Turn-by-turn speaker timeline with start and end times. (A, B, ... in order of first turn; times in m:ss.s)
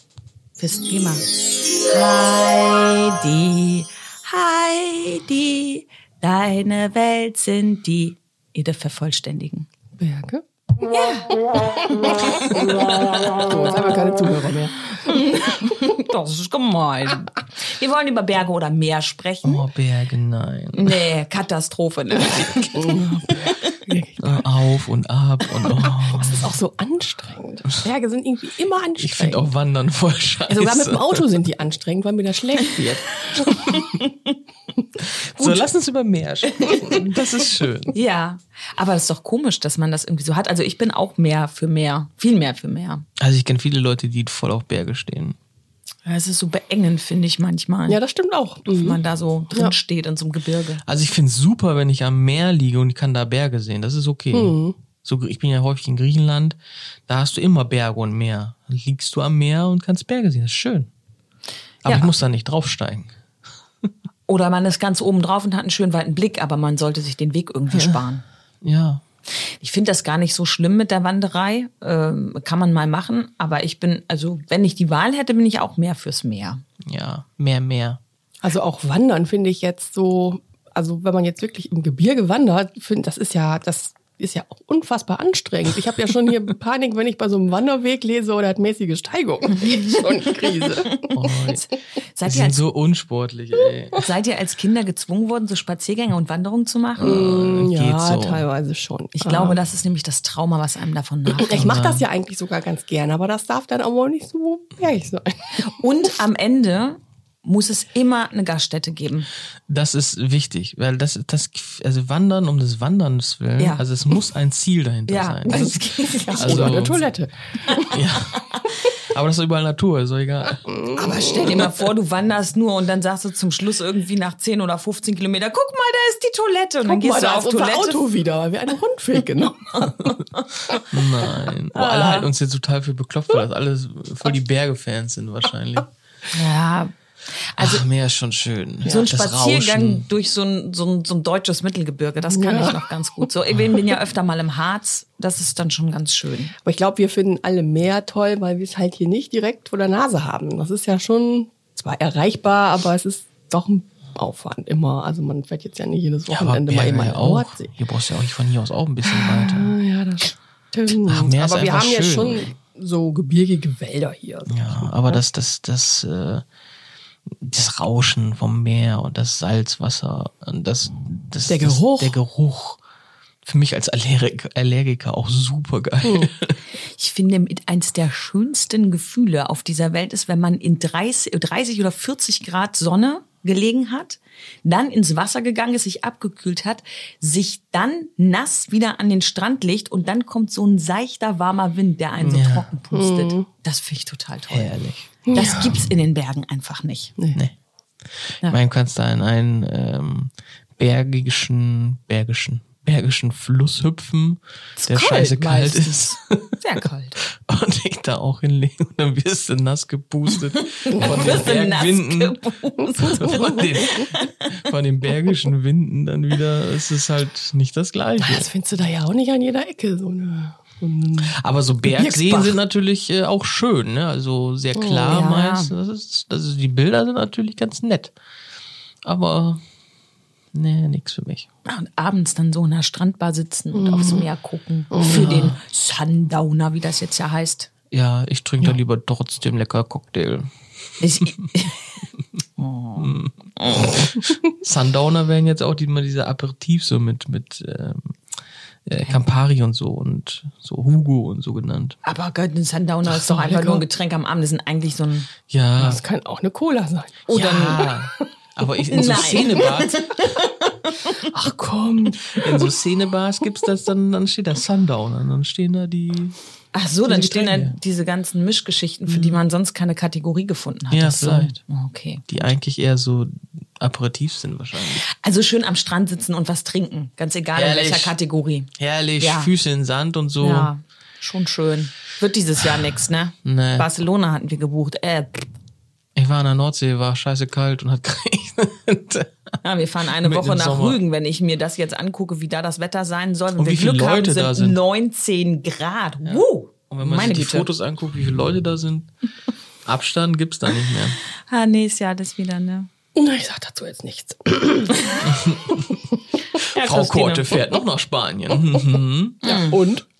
0:00.6-0:01.2 A
0:01.8-0:09.7 A
0:10.0-0:10.4 B
0:10.8-0:12.6 A
0:13.3-0:15.2 B
0:15.0-0:19.6 A
0:19.4-0:21.0 C
0:20.7-0:23.8 A
0:22.8-0:24.4 B
0:24.2-0:26.5 C
0:25.7-0:29.5 B
0:29.0-0:31.2 C
0:30.5-0:33.5 B
0:33.7-0:34.1 A
0:35.0-0:37.9 C
0:36.6-0:37.0 A
0:37.9-0:43.0 A
0:43.2-0:45.4 C
0:46.0-0:48.0 A
0:47.9-0:49.0 B
0:48.7-0:50.8 A
0:50.8-1:00.9 C
0:54.3-0:54.7 B
1:01.8-1:03.1 C
1:01.8-1:02.1 A
1:04.3-1:08.2 A
1:07.7-1:08.0 C
1:08.6-1:09.0 C
1:09.6-1:16.6 A
1:16.9-1:18.0 C
1:18.4-1:31.3 B
1:30.9-1:32.6 A
1:31.1-1:31.6 C
1:32.2-1:34.0 C
1:33.9-1:37.3 A
1:37.0-1:39.6 B
1:37.0-1:38.4 C
1:39.1-1:41.8 A
1:41.4-1:42.0 C
1:41.4-1:45.7 B
1:45.6-1:49.3 A
1:49.7-1:55.8 C
1:53.6-1:53.8 A
1:55.1-1:56.8 A
1:55.5-1:58.0 B
1:56.4-1:57.1 C
1:57.9-2:00.7 C
1:58.4-1:58.6 A
2:00.7-2:01.7 B
2:00.9-2:08.1 A
2:06.8-2:10.1 B
2:09.8-2:10.8 A
2:10.9-2:15.9 C
2:11.7-2:12.2 A
2:11.8-2:12.2 B
2:16.3-2:16.9 A
2:17.5-2:17.8 A
2:17.6-2:20.0 C
2:18.8-2:19.1 B
2:18.9-2:26.5 A
2:22.3-2:23.3 B
2:26.6-2:37.7 B
2:36.3-2:39.8 C
2:39.2-2:45.2 B
2:41.0-2:42.5 C
2:44.5-2:46.4 C
2:47.4-2:52.8 C
2:51.4-2:52.2 B
2:53.4-2:56.6 C
2:56.8-3:14.7 A
3:12.2-3:12.7 C
3:12.9-3:13.5 B
3:14.5-3:15.3 C
3:15.2-3:15.8 B
3:15.3-3:17.1 A
3:18.4-3:26.6 C
3:24.8-3:27.2 A
3:27.4-3:32.4 C
3:30.8-3:34.5 A
3:33.0-3:38.5 C
3:33.2-3:34.0 B
3:38.2-3:42.6 B
3:41.2-3:48.1 C
3:44.7-3:45.2 B
3:45.0-3:45.7 A
3:49.0-3:49.6 C
3:50.5-3:51.5 C
3:51.6-3:57.7 A
3:53.7-3:54.3 B
3:54.9-3:55.2 B
3:55.0-3:55.6 C
3:57.9-4:00.5 C
4:01.0-4:01.8 A
4:02.6-4:04.0 A
4:03.0-4:08.1 C
4:08.8-4:12.0 C
4:09.0-4:09.2 A
4:12.0-4:15.3 A
4:13.1-4:13.8 B
4:15.5-4:16.0 C
4:15.8-4:17.3 B
4:17.3-4:17.9 A
4:17.3-4:20.0 C
4:18.9-4:21.2 A
4:21.3-4:22.7 B
4:22.3-4:26.4 C
4:26.7-4:32.2 A
4:27.1-4:27.7 C
4:29.1-4:29.4 C
4:30.9-4:31.5 C
4:32.3-4:35.0 C
4:34.9-4:39.5 A
4:37.5-4:38.1 C
4:38.8-4:40.7 C
4:40.4-4:45.5 A
4:43.4-4:43.9 C
4:46.2-4:49.3 C
4:49.6-4:57.7 A
4:50.2-4:51.0 C
4:53.6-4:54.8 C
4:56.2-4:59.1 C
4:59.8-5:01.2 C
5:01.5-5:02.9 A
5:03.2-5:05.1 B
5:05.2-5:06.0 C
5:06.6-5:07.6 A
5:06.8-5:09.6 C
5:08.5-5:08.8 B
5:09.4-5:10.0 B
5:09.4-5:09.8 A